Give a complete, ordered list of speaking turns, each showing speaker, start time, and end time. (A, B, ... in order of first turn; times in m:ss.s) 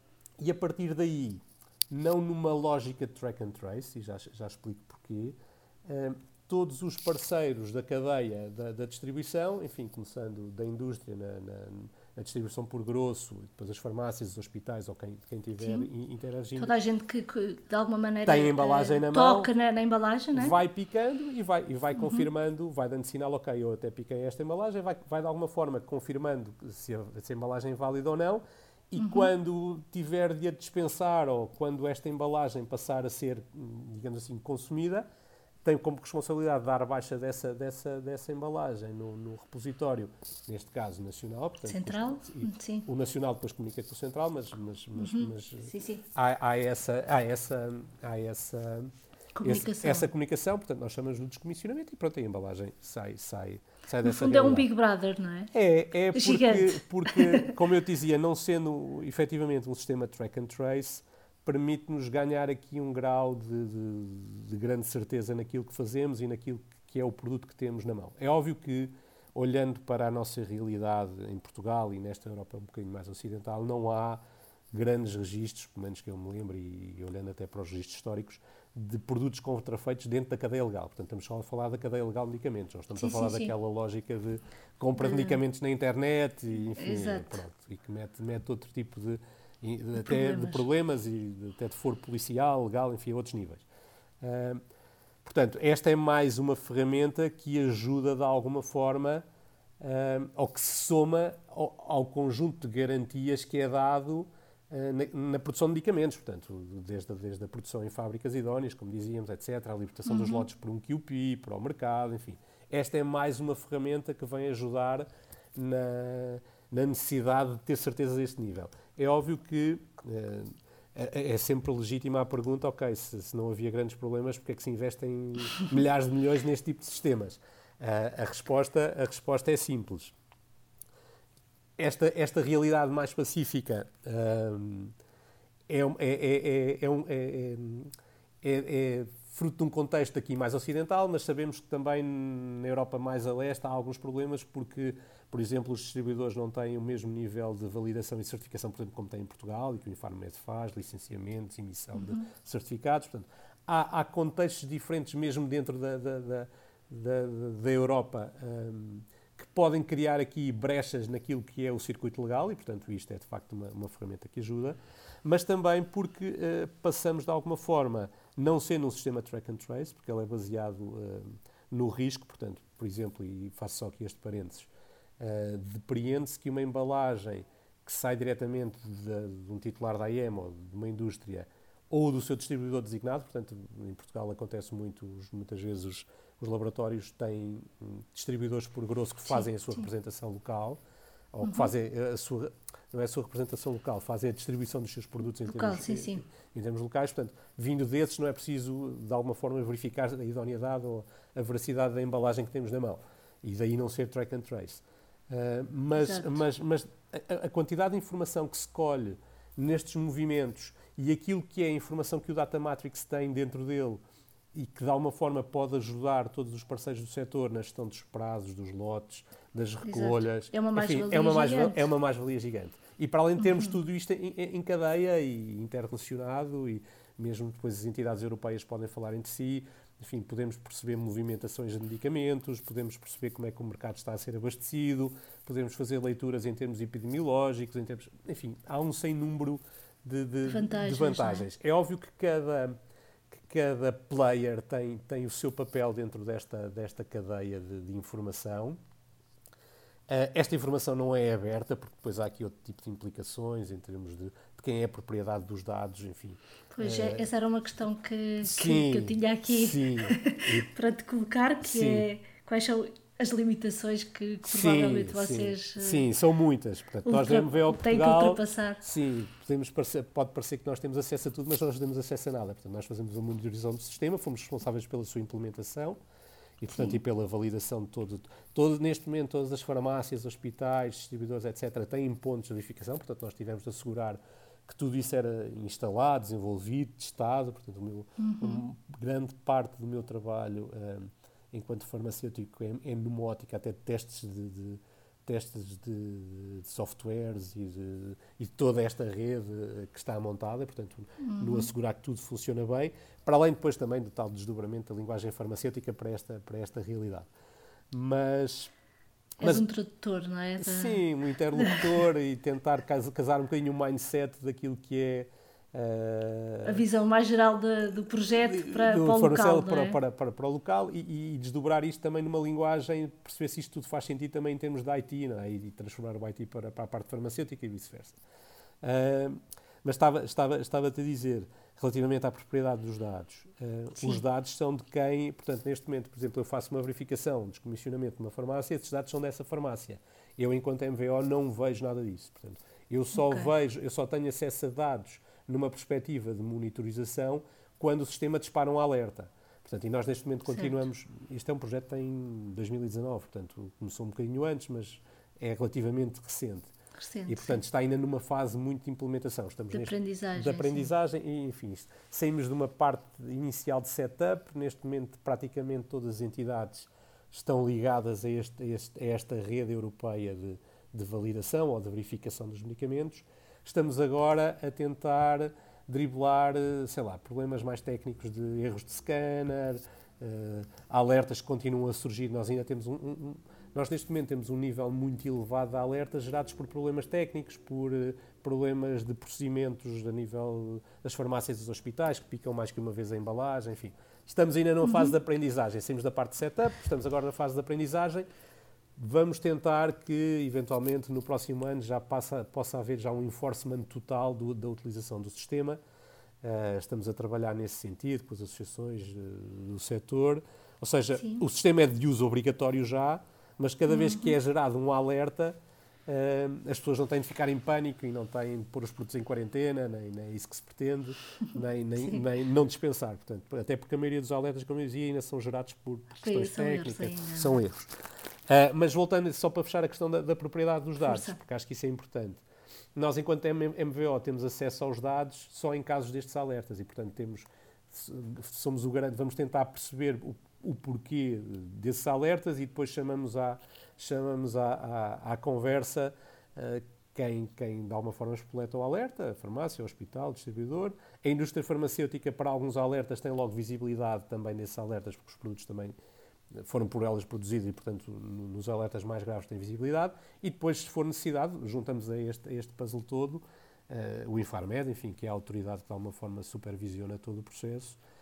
0:00.4-0:16.8 A
0:15.6-0:15.9 B
0:16.6-0:20.5 B
0:18.2-0:19.5 A
0:20.3-0:35.0 A
0:22.0-0:22.2 B
0:29.0-0:29.3 B
0:35.6-0:48.9 A
0:41.6-0:42.8 B
0:45.0-0:46.0 B
0:49.3-0:50.1 B
0:49.4-0:54.7 A
0:54.0-0:55.5 B
0:55.5-1:14.2 A
0:56.1-0:57.5 B
1:14.7-1:33.6 A
1:23.0-1:23.5 B
1:25.0-1:25.4 B
1:26.8-1:27.4 B
1:30.0-1:30.6 B
1:34.2-1:34.6 A
1:35.2-1:39.2 A
1:39.8-2:10.1 A
1:50.0-1:50.5 B
2:11.8-2:14.9 A
2:15.7-2:54.7 A
2:31.9-2:32.2 B
2:55.2-3:10.8 A
3:09.3-3:09.8 B
3:11.3-3:34.0 A
3:11.4-3:11.7 B
3:15.4-3:16.2 B
3:26.0-3:26.4 B
3:34.5-4:02.8 A
3:39.8-3:41.8 B
3:43.4-3:43.7 B
4:00.4-4:01.4 B
4:03.3-4:08.8 A
4:10.1-4:17.3 A
4:16.7-4:26.0 B
4:18.4-4:20.7 A
4:21.6-4:22.1 A
4:24.4-4:36.0 A
4:27.0-4:28.8 B
4:36.6-5:07.3 A
4:48.2-4:48.6 B
5:01.2-5:01.7 B
5:07.9-5:08.7 A
5:09.4-5:09.6 A
5:09.4-5:11.0 B
5:10.6-5:16.8 A
5:11.6-5:11.8 B
5:16.6-5:20.0 B
5:18.4-5:28.2 A
5:28.8-5:56.7 A
5:43.2-5:43.5 B
5:50.5-5:50.8 B
5:57.0-5:57.6 B
5:57.3-6:38.3 A
5:59.7-6:00.9 B
6:34.8-6:35.1 B
6:39.0-6:45.8 A
6:46.4-6:55.6 A
6:53.9-6:54.3 B
6:56.1-7:07.9 A
7:06.2-7:07.6 B
7:08.5-7:12.4 A
7:11.0-7:11.4 B
7:13.0-7:35.9 A
7:36.5-7:48.0 A